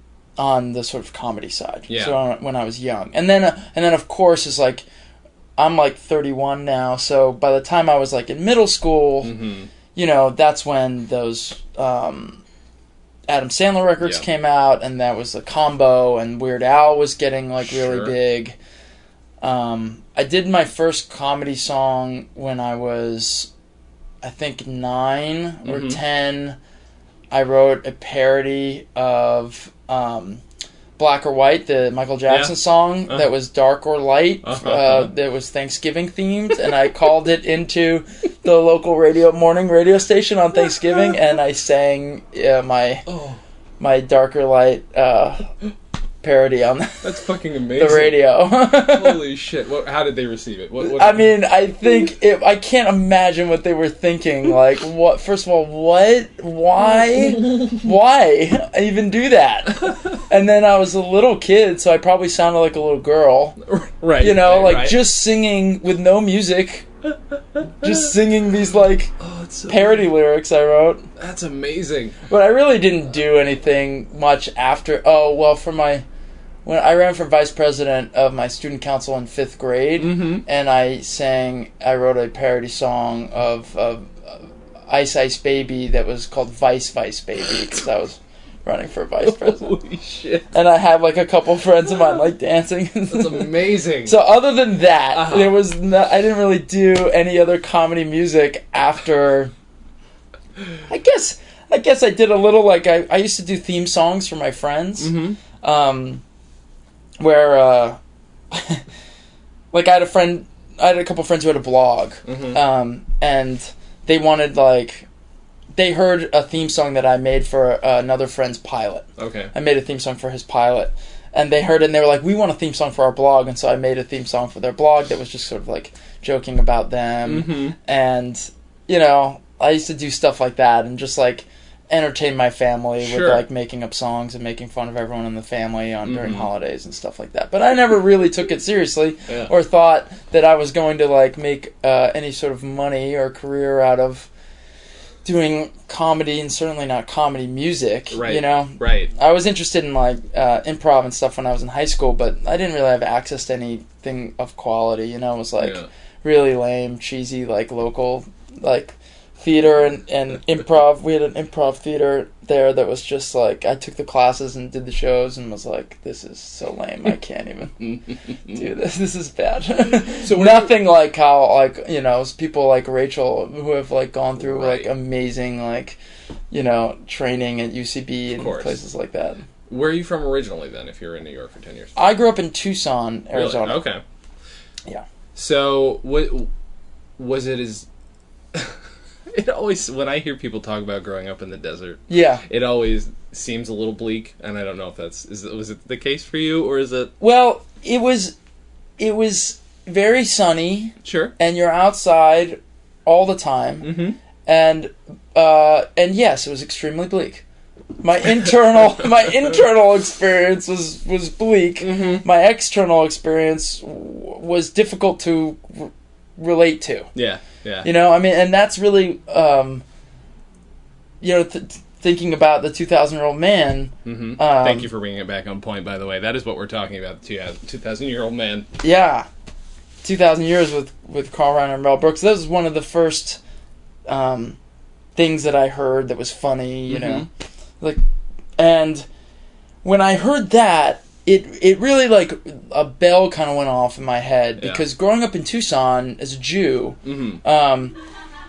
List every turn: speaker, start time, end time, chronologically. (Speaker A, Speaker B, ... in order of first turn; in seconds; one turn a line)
Speaker A: 0.4-4.9
Speaker B: 1.9-2.2
Speaker A: 5.6-9.3
Speaker B: 9.2-9.7
Speaker A: 9.9-12.4
Speaker A: 13.3-18.6
Speaker B: 17.7-18.1
Speaker A: 19.4-23.5
Speaker A: 24.2-26.6
Speaker B: 25.6-26.0
Speaker A: 27.3-30.4
Speaker A: 31.0-43.0
Speaker B: 32.3-32.5
Speaker B: 34.4-35.1
Speaker B: 43.1-43.4
Speaker A: 43.8-45.5
Speaker A: 46.2-47.1
Speaker B: 47.0-48.2
Speaker A: 47.8-49.2
Speaker B: 48.8-51.3
Speaker A: 50.8-63.6
Speaker B: 63.6-65.0
Speaker A: 64.2-66.9
Speaker B: 67.5-68.0
Speaker A: 67.8-69.1
Speaker B: 69.2-70.0
Speaker A: 69.7-71.1
Speaker B: 71.2-72.3
Speaker A: 72.3-76.0
Speaker A: 76.7-89.8
Speaker B: 80.0-80.4
Speaker B: 89.2-90.5
Speaker A: 90.5-99.5
Speaker B: 93.1-94.2
Speaker B: 95.1-95.6
Speaker A: 100.9-106.2
Speaker B: 105.0-105.4
Speaker A: 107.2-108.0
Speaker A: 108.5-108.8
Speaker A: 109.7-115.1
Speaker B: 112.3-112.6
Speaker A: 115.7-144.3
Speaker B: 119.2-119.5
Speaker B: 127.3-127.8
Speaker B: 133.0-133.4
Speaker B: 136.1-136.5
Speaker A: 145.2-176.0
Speaker B: 148.1-149.1
Speaker B: 155.6-155.9
Speaker B: 170.1-170.7
Speaker B: 174.4-174.9
Speaker A: 176.5-179.5
Speaker B: 178.3-178.8
Speaker B: 179.7-182.0
Speaker A: 182.0-183.8
Speaker B: 183.3-184.0
Speaker B: 185.3-186.5
Speaker B: 187.2-187.9
Speaker B: 188.5-197.1
Speaker A: 192.1-192.4
Speaker A: 197.2-198.4
Speaker A: 199.0-203.9
Speaker B: 201.0-201.3
Speaker B: 203.8-204.2
Speaker A: 204.4-207.4
Speaker A: 208.0-217.1
Speaker B: 211.8-212.2
Speaker B: 217.2-217.9
Speaker A: 217.8-219.8
Speaker A: 221.2-224.9
Speaker B: 224.1-228.7
Speaker A: 228.8-229.3
Speaker A: 230.0-233.4
Speaker A: 234.1-234.6
Speaker A: 235.2-237.3
Speaker B: 236.9-237.3
Speaker A: 238.6-239.1
Speaker A: 239.8-248.0
Speaker B: 247.1-247.4